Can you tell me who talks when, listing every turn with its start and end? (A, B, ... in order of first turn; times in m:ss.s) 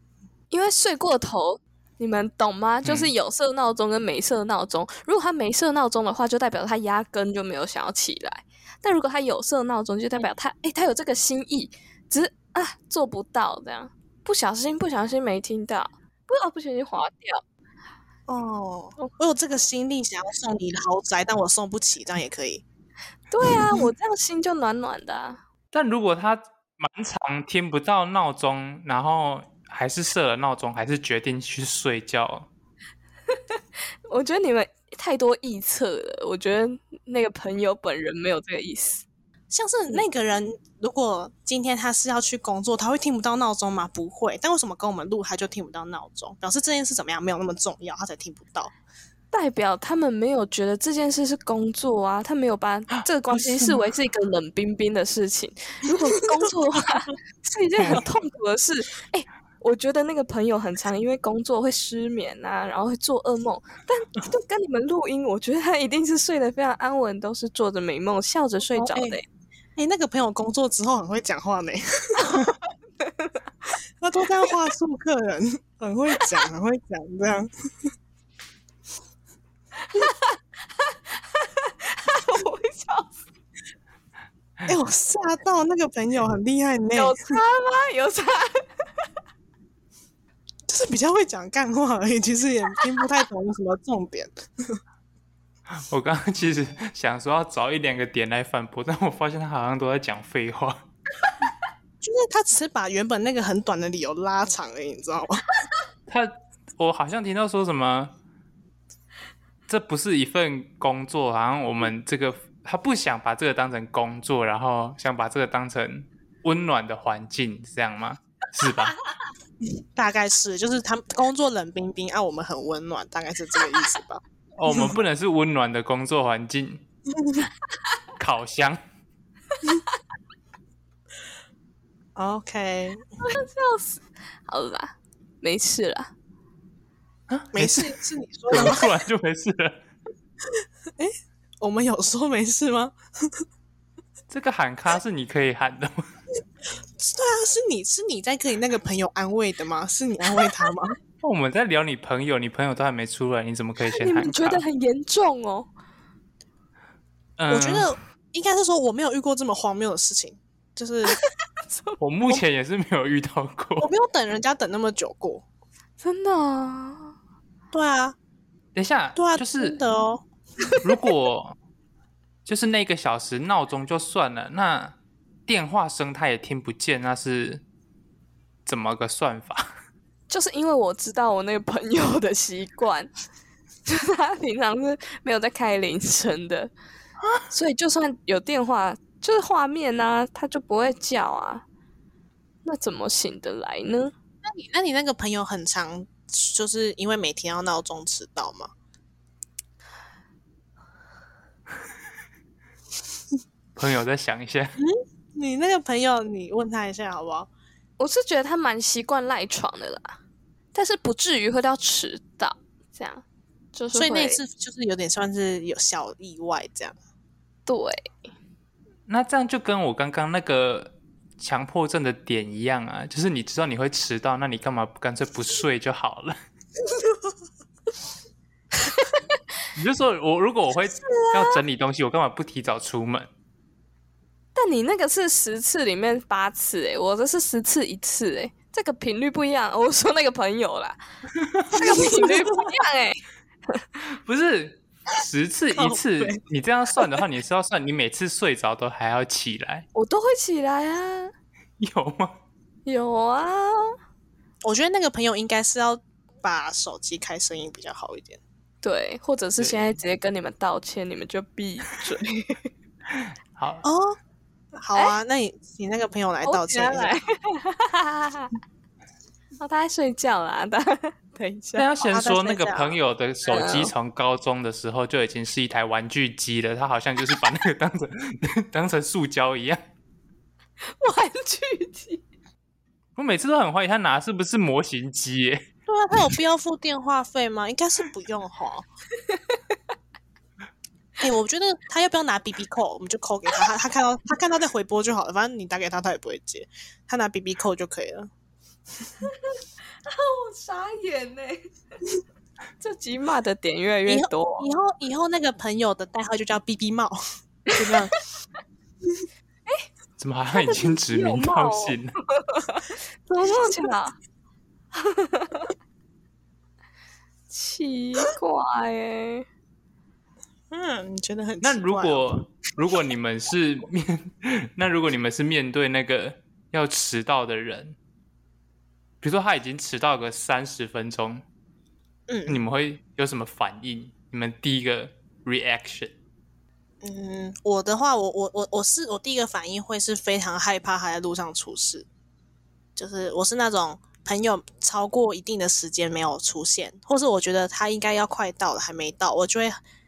0:00.5-0:17.4 A
0:02.8-0:03.1 B
0:18.3-0:22.6 C
0:23.3-0:25.4 A
0:23.5-0:23.8 C
0:25.7-0:32.5 B
0:33.3-0:39.0 A
0:39.5-0:48.7 C
0:49.3-1:09.2 A
0:53.3-0:53.9 B
0:57.8-0:58.1 B
1:08.7-1:09.2 C
1:09.8-1:12.6 C
1:12.2-1:13.4 A
1:14.0-1:17.5 C
1:19.9-1:23.2 A
1:24.7-1:27.4 C
1:26.9-1:28.8 A
1:30.7-1:34.8 C
1:35.7-1:40.8 B
1:42.0-1:45.5 C
1:46.1-1:48.1 B
1:49.7-1:59.0 B
2:00.0-2:05.0 C
2:04.6-2:06.8 B
2:07.2-2:07.5 C
2:08.2-2:08.8 B
2:12.2-2:13.0 C
2:13.2-2:16.1 A
2:17.3-2:18.0 B
2:17.5-2:18.9 C
2:18.5-2:19.8 B
2:21.0-2:23.0 C
2:24.3-2:26.1 B
2:27.0-2:31.0 C
2:31.2-2:34.6 B
2:33.9-2:35.7 A
2:37.4-2:37.9 B
2:37.5-2:41.2 C
2:41.1-2:42.0 A
2:42.0-2:43.9 B
2:43.8-2:45.4 C
2:46.0-2:47.1 A
2:47.7-2:48.2 C
2:48.8-2:49.8 B
2:49.2-2:50.2 C
2:50.8-2:51.6 B
2:52.5-2:55.0 B
2:55.5-2:57.6 B
2:58.7-2:59.7 B
3:00.3-3:03.1 A
3:03.9-3:06.7 A
3:07.5-3:11.6 A
3:12.6-3:14.1 A
3:14.4-3:18.7 C
3:23.8-3:24.8 B
3:24.8-3:27.5 C
3:28.0-3:30.2 A
3:30.7-3:34.4 A
3:33.9-3:37.0 C
3:37.7-3:38.1 A
3:39.1-3:46.4 B
3:48.9-3:49.2 A
3:49.8-3:53.3 B
3:51.3-3:51.6 A
3:54.6-4:01.0 A
4:01.4-4:01.8 B
4:01.7-4:03.8 A
4:01.7-4:02.7 C
4:04.2-4:09.9 B
4:05.7-4:06.4 C
4:09.9-4:11.3 A
4:11.8-4:12.4 B
4:12.9-4:13.9 A
4:14.6-4:18.4 C
4:18.8-4:22.7 A
4:19.6-4:19.9 B
4:23.1-4:23.8 B
4:23.8-4:24.2 C
4:24.8-4:27.2 C
4:26.4-4:28.6 A
4:29.6-4:31.9 A
4:31.8-4:39.8 B
4:32.0-4:33.0 C
4:33.5-4:33.9 A
4:41.0-4:42.2 A
4:43.2-4:45.7 B
4:45.9-4:48.9 C
4:49.3-4:49.8 A
4:51.2-4:58.3 C
4:59.3-5:01.6 A
5:02.8-5:04.7 A
5:04.1-5:07.2 C
5:07.7-5:08.2 C
5:10.2-5:12.2 B
5:10.5-5:14.2 A
5:14.9-5:15.7 A
5:17.5-5:19.5 A
5:20.7-5:22.4 C
5:21.6-5:28.0 B
5:29.2-5:31.4 B
5:32.3-5:32.6 C
5:32.5-5:36.1 B
5:37.0-5:42.1 C
5:43.0-5:49.8 C